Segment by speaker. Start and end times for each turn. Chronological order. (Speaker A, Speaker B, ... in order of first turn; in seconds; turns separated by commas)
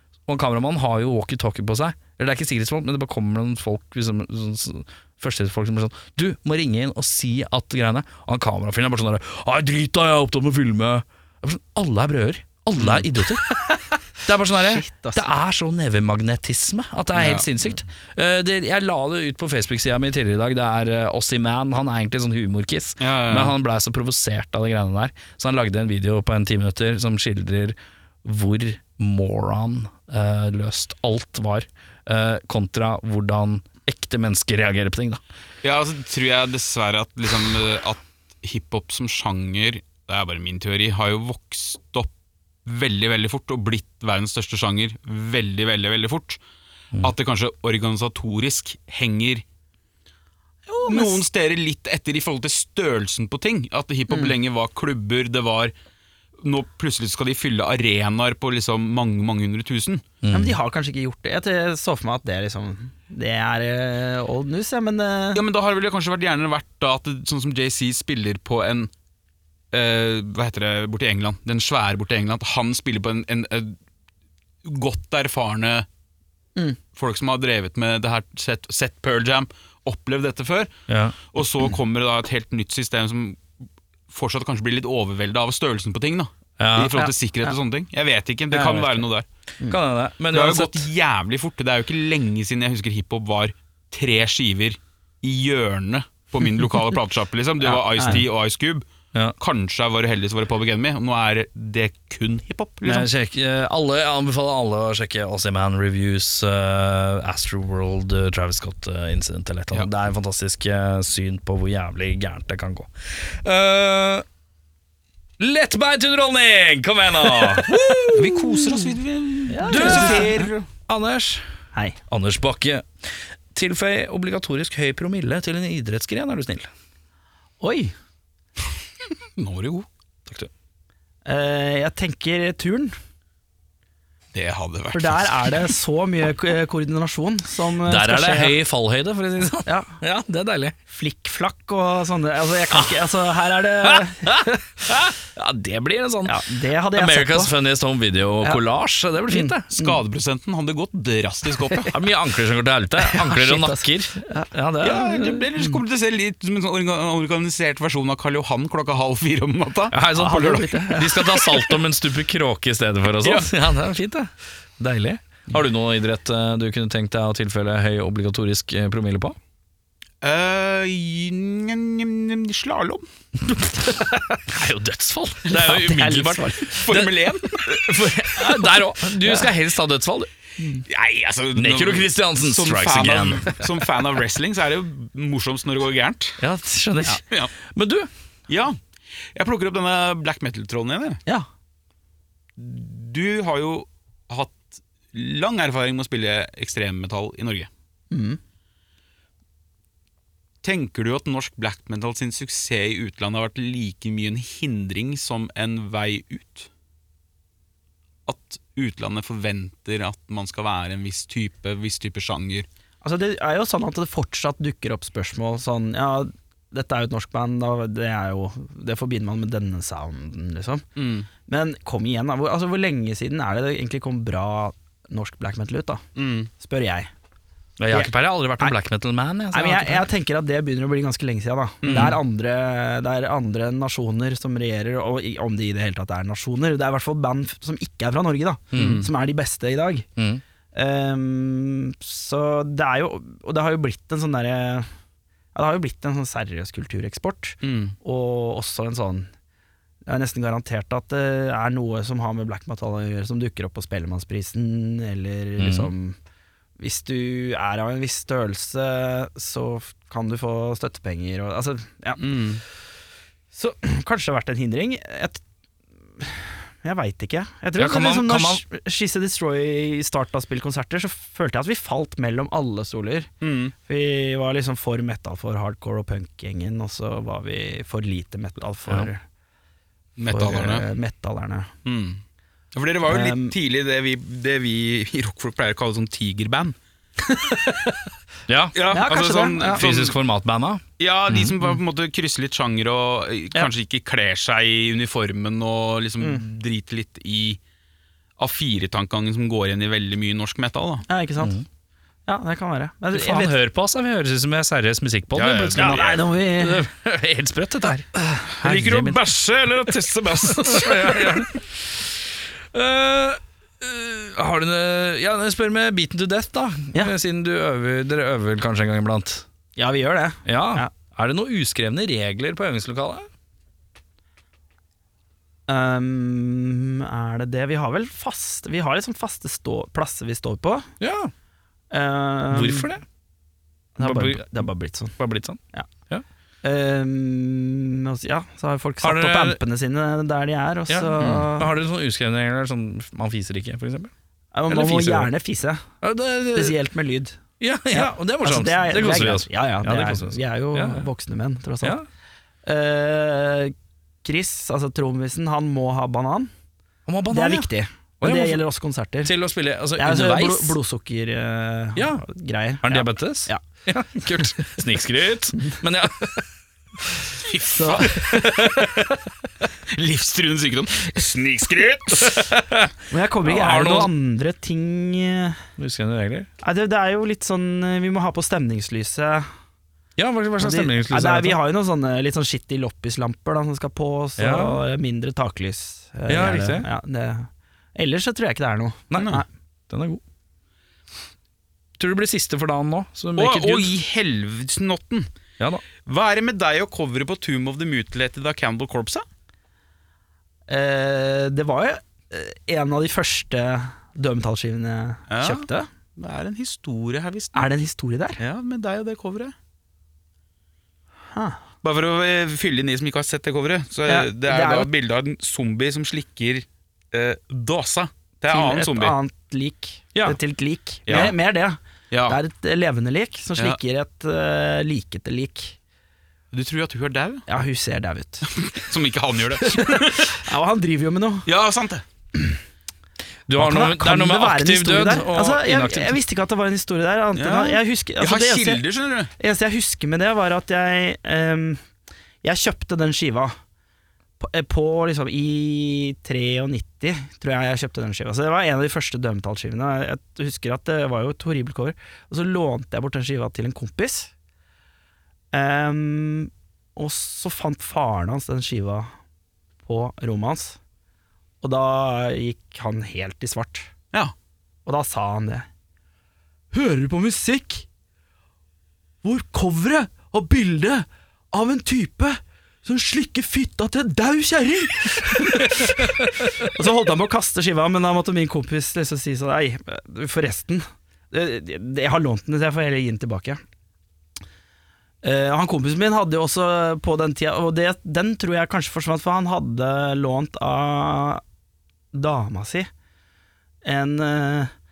Speaker A: 0.3-13.6, Speaker B: 12.8-13.0, Speaker A: 14.2-35.2, Speaker C: 14.5-15.2, Speaker B: 17.1-17.4, Speaker B: 23.0-23.5, Speaker B: 35.6-42.1, Speaker B: 42.6-46.4, Speaker B: 47.0-49.4, Speaker C: 50.7-51.2, Speaker B: 50.8-55.7, Speaker B: 56.4-60.0, Speaker A: 60.2-60.6, Speaker C: 60.3-65.4, Speaker B: 65.3-68.9, Speaker B: 69.7-73.8, Speaker B: 74.6-75.9, Speaker B: 76.9-80.7, Speaker A: 80.9-81.2, Speaker B: 81.3-83.5, Speaker B: 84.1-89.2, Speaker A: 86.6-87.1, Speaker A: 88.5-89.0, Speaker A: 89.6-90.9, Speaker B: 90.3-98.8, Speaker C: 97.9-98.2, Speaker B: 99.4-103.1, Speaker A: 102.8-114.2, Speaker A: 115.4-118.8, Speaker C: 117.9-118.2, Speaker B: 118.1-120.7, Speaker C: 119.5-120.5, Speaker A: 119.7-121.5, Speaker A: 122.1-122.9, Speaker A: 123.5-126.7, Speaker C: 127.6-127.9, Speaker B: 129.3-129.9, Speaker C: 131.2-132.9, Speaker B: 134.3-135.6, Speaker C: 134.9-138.6, Speaker A: 137.8-140.8, Speaker C: 139.7-140.0, Speaker C: 140.9-144.6, Speaker A: 143.8-146.4, Speaker C: 146.2-147.5, Speaker A: 146.9-149.7, Speaker C: 149.3-150.0, Speaker B: 149.7-151.9, Speaker A: 151.9-155.4, Speaker C: 153.0-154.5, Speaker B: 154.8-159.9, Speaker A: 159.9-169.4, Speaker C: 160.1-161.7, Speaker B: 163.2-163.5, Speaker B: 170.2-173.1, Speaker A: 174.5-177.1, Speaker C: 175.5-176.9, Speaker B: 176.7-177.9, Speaker A: 177.6-180.3, Speaker C: 179.2-179.4, Speaker B: 180.9-186.4, Speaker A: 181.5-183.6, Speaker A: 186.4-188.1, Speaker B: 188.5-188.8, Speaker B: 189.3-191.2, Speaker B: 192.6-197.7, Speaker C: 198.1-198.4, Speaker B: 200.6-206.7, Speaker B: 208.2-212.7, Speaker C: 213.0-220.8, Speaker B: 220.9-221.3, Speaker C: 221.4-226.0, Speaker B: 226.2-226.5, Speaker C: 226.6-227.1, Speaker A: 227.8-230.1, Speaker C: 227.9-228.7, Speaker C: 229.5-240.1, Speaker B: 231.8-232.2, Speaker A: 231.9-232.1, Speaker A: 238.7-239.0, Speaker B: 238.7-239.1, Speaker C: 240.7-244.9, Speaker C: 245.5-249.3, Speaker B: 247.6-247.9, Speaker C: 250.1-256.1, Speaker A: 255.6-255.9, Speaker C: 256.8-262.5, Speaker B: 262.2-262.6, Speaker C: 263.5-265.4, Speaker C: 266.2-273.3, Speaker A: 267.8-268.6, Speaker B: 273.4-273.7, Speaker C: 273.9-279.2, Speaker B: 280.2-280.9, Speaker C: 280.3-281.7, Speaker B: 281.8-282.2, Speaker B: 282.7-286.8, Speaker C: 283.1-283.5, Speaker C: 287.3-288.0, Speaker A: 288.5-288.8, Speaker B: 288.7-290.1, Speaker C: 288.9-289.9, Speaker A: 289.7-291.6, Speaker B: 291.0-297.6, Speaker B: 298.4-301.0, Speaker C: 301.1-301.5, Speaker C: 302.3-303.6, Speaker A: 303.1-309.2, Speaker B: 305.3-306.2, Speaker C: 305.8-306.8, Speaker B: 308.5-311.5, Speaker A: 310.6-311.6, Speaker A: 312.7-319.4, Speaker C: 319.8-320.9, Speaker A: 320.4-323.3, Speaker C: 325.7-330.9, Speaker A: 331.0-331.3, Speaker C: 331.9-332.9, Speaker A: 332.5-333.0, Speaker C: 334.0-335.1, Speaker A: 334.0-336.2, Speaker C: 336.6-341.7, Speaker A: 339.0-339.6, Speaker A: 340.9-344.1, Speaker B: 341.2-341.5, Speaker C: 344.5-345.8, Speaker A: 344.7-345.3, Speaker A: 346.0-346.8, Speaker C: 346.5-347.4, Speaker A: 347.6-351.1, Speaker C: 347.9-352.0, Speaker C: 352.6-356.5, Speaker A: 357.1-357.7, Speaker C: 357.3-359.3, Speaker A: 358.2-358.6, Speaker A: 359.2-360.8, Speaker C: 360.0-363.6, Speaker A: 361.9-362.2, Speaker A: 362.8-366.4, Speaker B: 367.4-368.6, Speaker C: 367.7-368.4, Speaker A: 368.3-368.9, Speaker B: 369.8-372.5, Speaker A: 372.2-374.1, Speaker C: 373.1-375.6, Speaker A: 375.8-376.5, Speaker C: 376.6-379.5, Speaker A: 380.2-381.6, Speaker C: 380.6-389.4, Speaker A: 384.4-384.8, Speaker A: 386.3-386.9, Speaker A: 389.1-389.4, Speaker B: 389.2-389.4, Speaker A: 389.9-390.2, Speaker A: 392.0-393.9, Speaker B: 393.4-395.3, Speaker B: 396.0-399.2, Speaker C: 400.7-405.9, Speaker B: 405.3-407.7, Speaker C: 407.5-408.4, Speaker B: 408.4-409.5, Speaker C: 411.3-411.6, Speaker B: 411.8-419.1, Speaker C: 414.1-414.9, Speaker C: 418.5-425.8, Speaker B: 421.1-421.3, Speaker B: 422.1-422.4, Speaker B: 426.5-427.4, Speaker C: 427.5-428.6, Speaker B: 428.5-430.3, Speaker C: 429.6-431.5, Speaker B: 431.4-432.0, Speaker A: 433.5-436.2, Speaker C: 433.6-438.8, Speaker B: 437.3-439.3, Speaker C: 439.4-441.8, Speaker C: 442.4-443.5, Speaker C: 444.4-454.3, Speaker C: 455.5-459.1, Speaker C: 459.8-460.8, Speaker C: 461.6-463.9, Speaker C: 464.9-465.7, Speaker C: 466.7-467.9, Speaker C: 469.2-483.6, Speaker A: 475.5-476.7, Speaker C: 485.2-491.4, Speaker C: 492.1-492.9, Speaker C: 493.8-494.7